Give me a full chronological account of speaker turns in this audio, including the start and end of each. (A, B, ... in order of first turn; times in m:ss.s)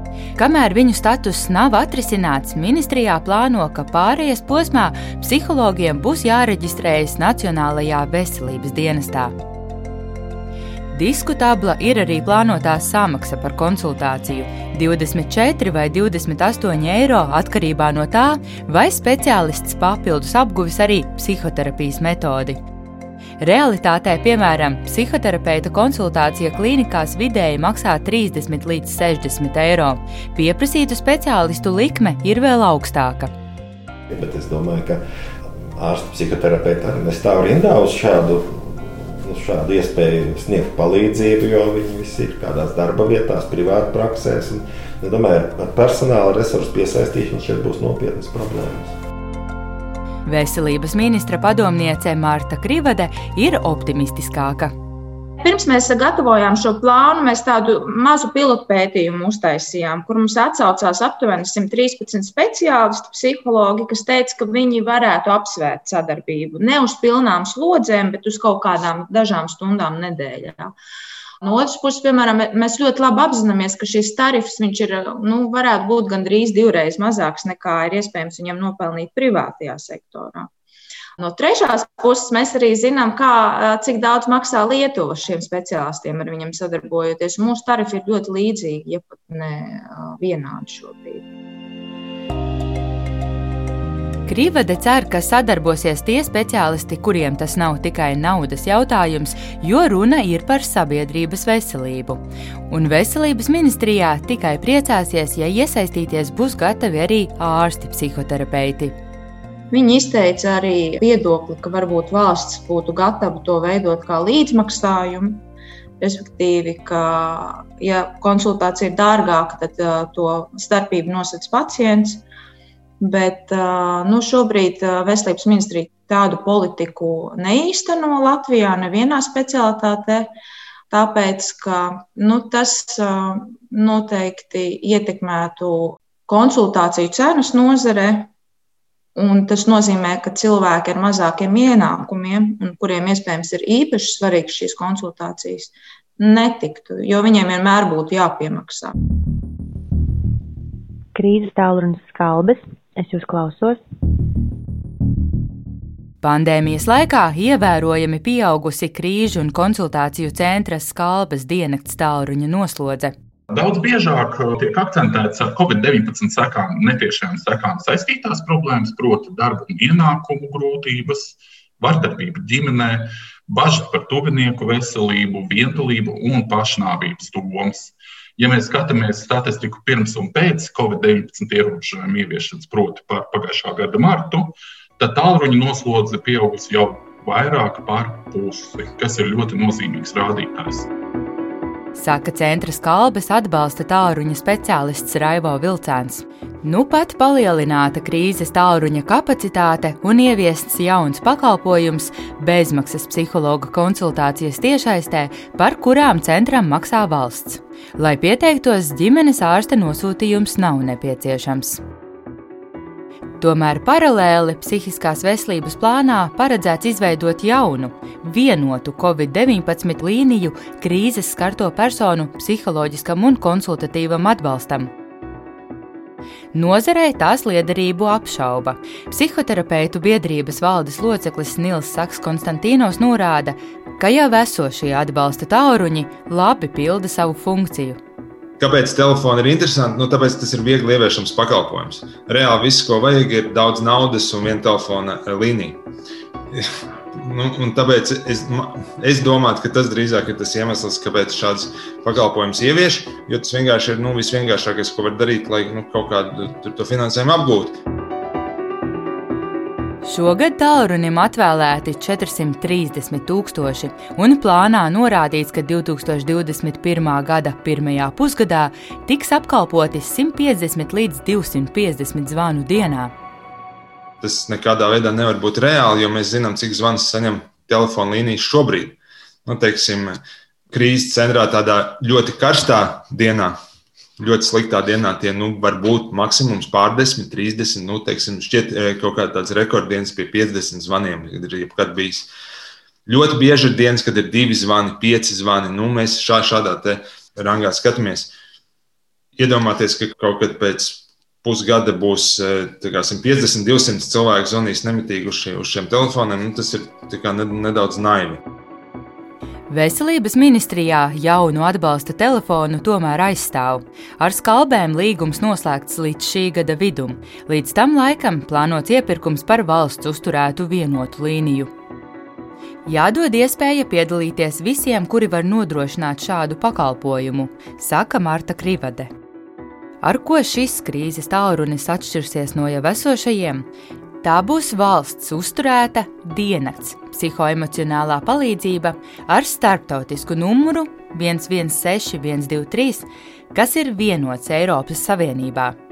0:00.4-0:09.3 A
0:10.9-0:22.6 A
0:23.4-0:33.3 A
0:34.1-0:48.9 B
0:50.3-0:54.7 A
0:55.4-1:10.7 C
1:11.4-1:20.5 C
1:21.2-1:31.3 C
1:34.3-1:48.9 A
1:49.7-1:55.4 C
1:56.0-2:02.2 C
2:03.0-2:10.3 C
2:10.9-2:18.3 C
2:19.2-2:28.9 C
2:31.2-2:33.8 D
2:36.2-2:43.1 A
2:43.5-3:10.9 E
3:12.0-3:31.8 A
3:33.4-3:44.9 A
3:46.5-3:58.0 A
3:58.6-4:05.8 F
4:06.5-4:17.8 F
4:20.0-4:33.1 A
4:34.2-4:40.2 F
4:40.7-4:43.6 F
4:44.2-4:52.3 F
4:53.1-4:58.3 F
4:59.4-5:08.4 F
5:09.7-5:21.7 A
5:22.9-5:29.1 A
5:30.0-5:33.6 A
5:34.2-5:45.8 A